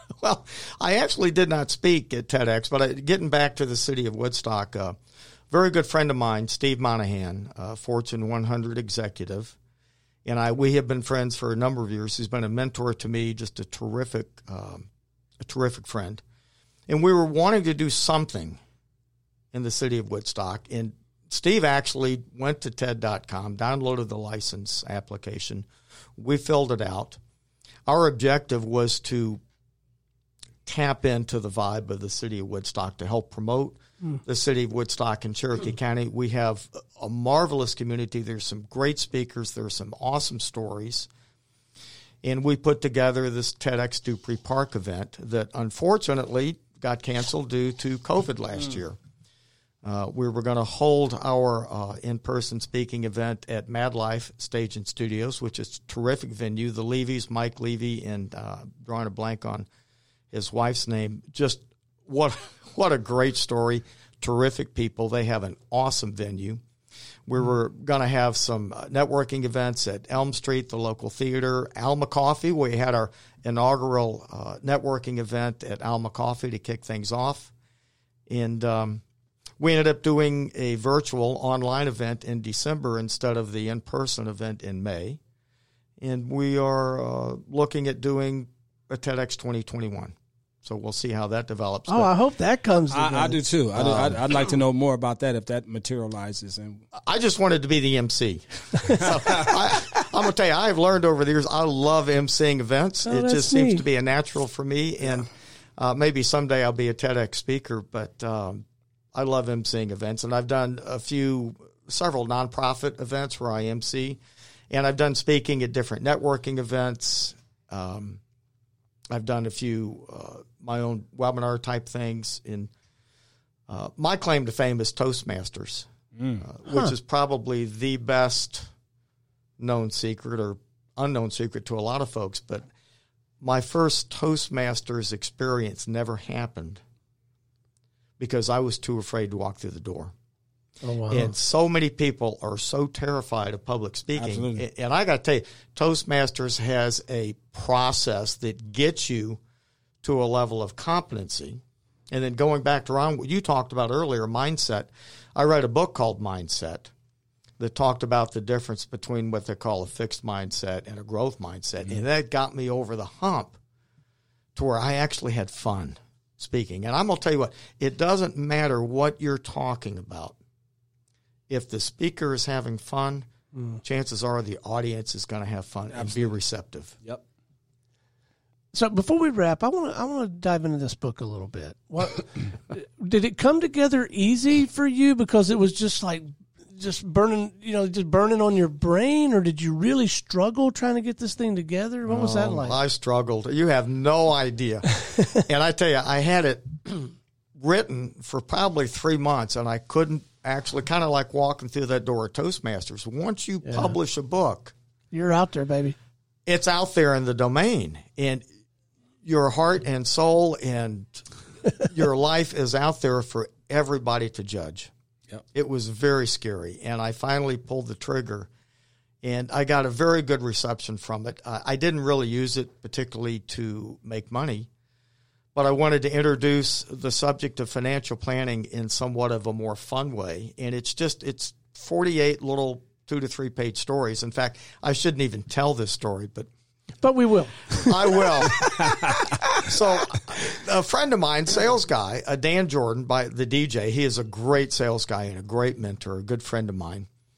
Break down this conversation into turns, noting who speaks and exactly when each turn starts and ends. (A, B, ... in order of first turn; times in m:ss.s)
0:00.2-0:05.0 A
0:05.5-0:09.6 A
0:10.2-0:14.9 A
0:15.4-0:16.2 A
0:16.9-0:18.6 A
0:19.5-0:25.6 A
0:26.2-0:27.2 A
0:27.9-0:29.4 A
0:30.6-0:41.1 A
0:42.2-0:49.0 A
0:49.8-0:59.7 A
1:00.3-1:06.6 A
1:07.3-1:17.5 A
1:18.3-1:19.0 A
1:19.6-1:25.2 A
1:26.0-1:32.1 A
1:31.9-1:33.4 B
1:32.9-1:36.8 C
1:33.7-1:34.2 A
1:37.0-1:54.2 A
1:43.0-1:43.8 B
1:54.7-1:58.2 A
1:59.1-2:02.7 A
2:03.7-2:05.9 A
2:06.2-2:06.4 C
2:06.4-2:08.7 A
2:06.7-2:06.9 B
2:09.6-2:12.7 A
2:13.4-2:16.8 A
2:18.2-2:20.1 A
2:20.8-2:21.3 B
2:21.1-2:29.4 A
2:24.2-2:24.6 C
2:30.0-2:36.9 A
2:37.6-2:43.6 A
2:44.5-2:50.3 A
2:51.5-2:53.3 A
2:53.5-2:53.8 B
2:53.8-2:57.0 A
2:55.9-2:56.3 C
2:58.7-3:12.8 B
3:12.0-3:24.7 A
3:23.6-3:23.9 B
3:25.1-3:25.9 B
3:26.4-3:28.4 A
3:29.2-3:31.2 A
3:31.8-3:34.9 A
3:35.5-3:38.5 A
3:39.2-3:44.7 A
3:45.5-3:56.5 A
3:57.0-3:59.2 B
3:57.7-3:58.9 A
3:59.6-4:07.1 A